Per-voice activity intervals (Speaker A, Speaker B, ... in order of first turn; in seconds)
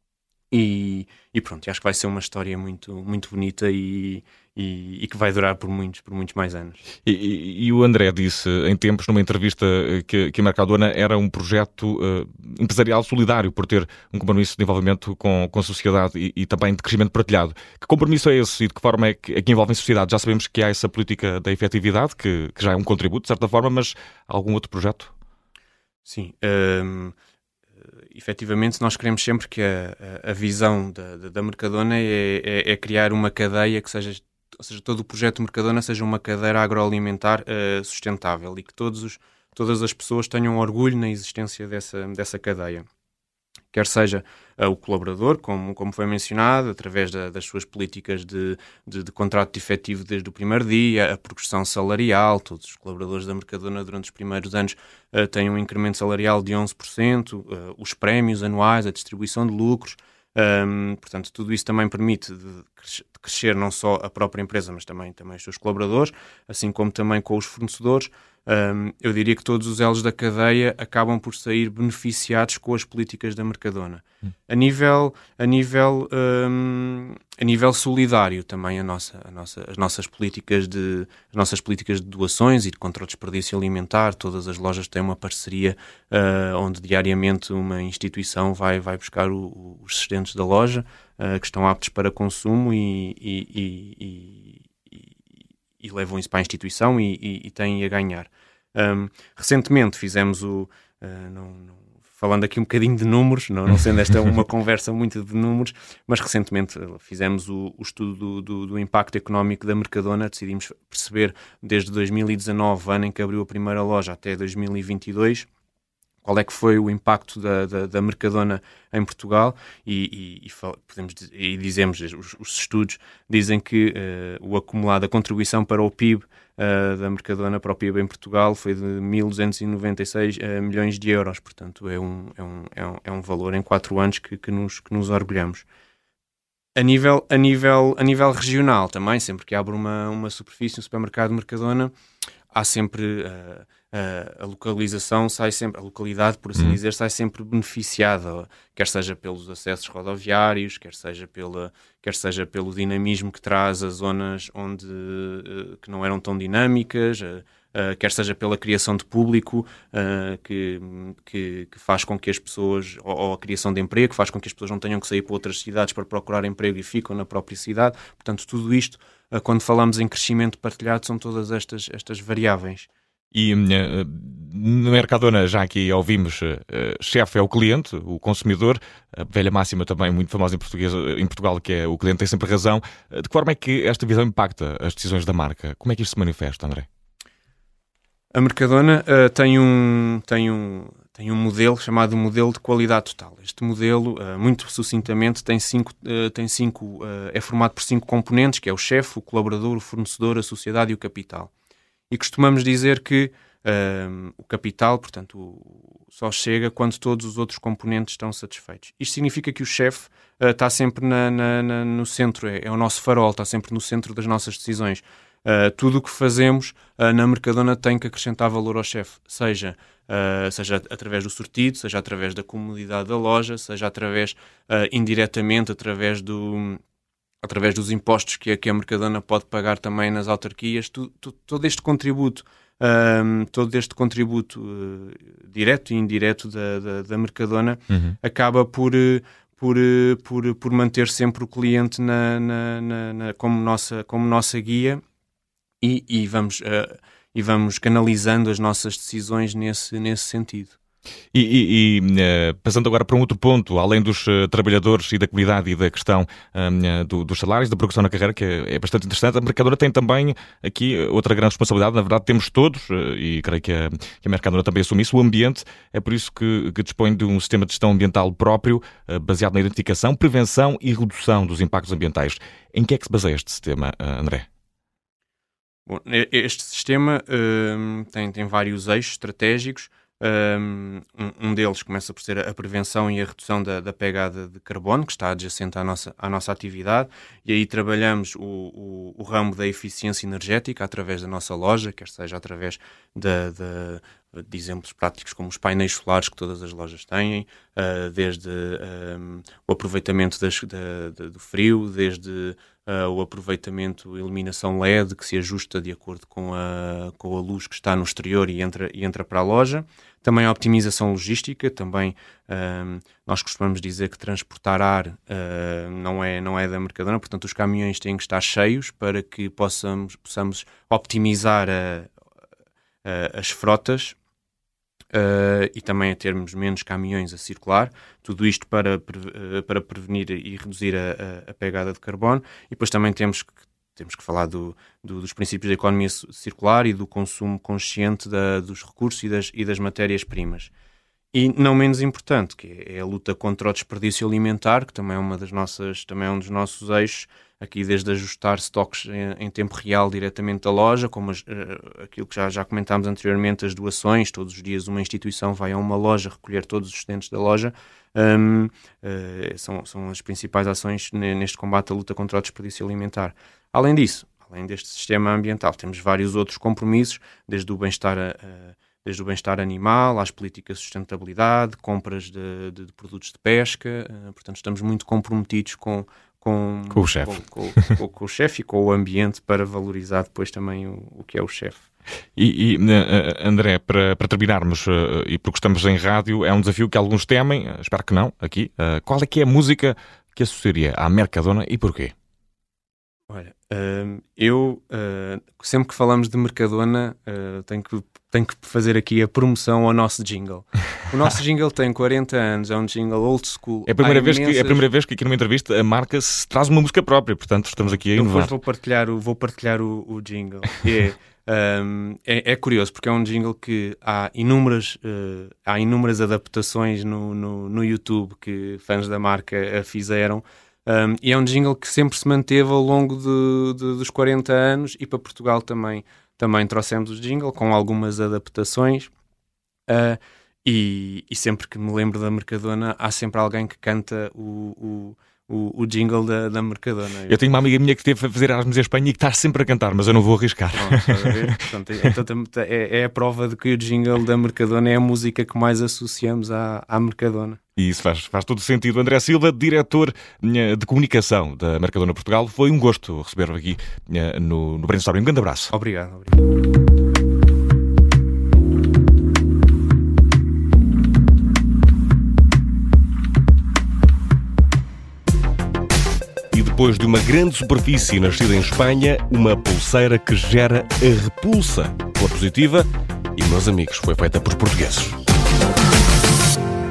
Speaker A: 0.5-6.8, 26.0-27.1, 28.1-42.9, 43.7-95.0, 95.8-115.5, 116.2-135.7, 136.8-141.9, 142.5-172.9, 188.3-201.5, 202.1-226.8, 227.4-245.0, 245.8-250.8, 275.9-322.1, 323.0-324.1, 325.1-340.7, 341.3-381.8, 393.3-404.9, 408.1-429.1, 429.9-437.5, 440.7-447.6, 455.7-456.4
Speaker B: 7.0-25.1, 173.3-186.8, 237.9-238.2, 251.3-274.4, 376.9-377.9, 382.4-392.1, 403.9-408.5, 437.3-442.1, 447.8-455.7
Speaker C: 466.5-475.2